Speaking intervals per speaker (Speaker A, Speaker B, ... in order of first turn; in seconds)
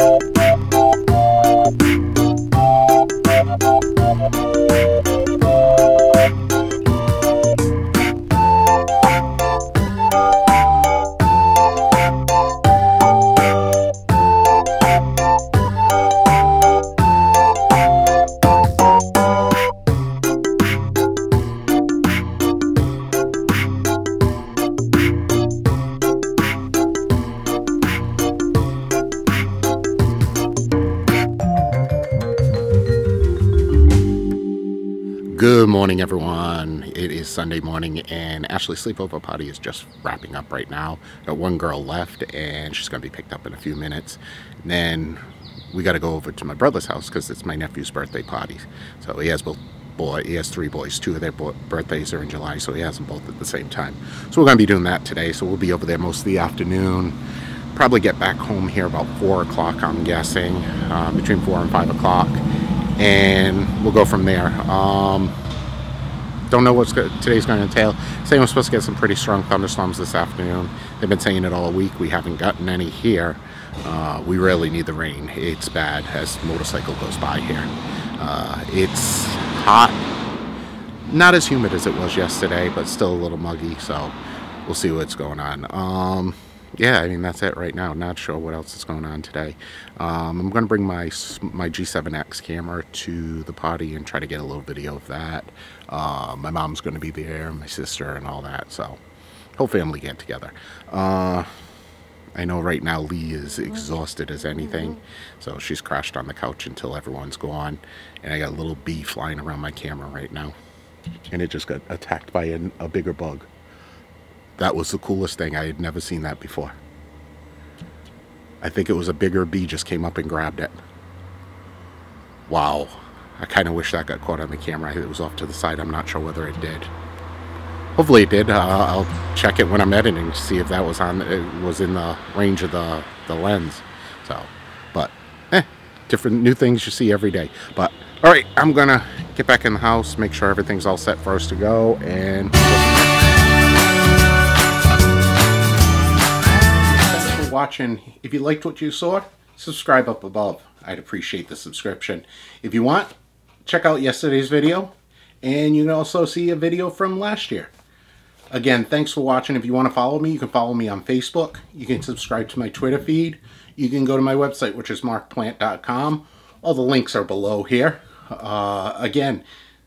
Speaker A: 35.3-57.2, 57.7-62.4, 63.0-65.3, 66.5-80.1, 81.1-99.0, 99.5-101.5, 102.3-110.5, 111.3-113.5, 114.6-116.8, 118.6-120.8, 122.5-126.9, 128.0-143.1, 146.8-153.1, 153.7-157.7, 158.5-169.4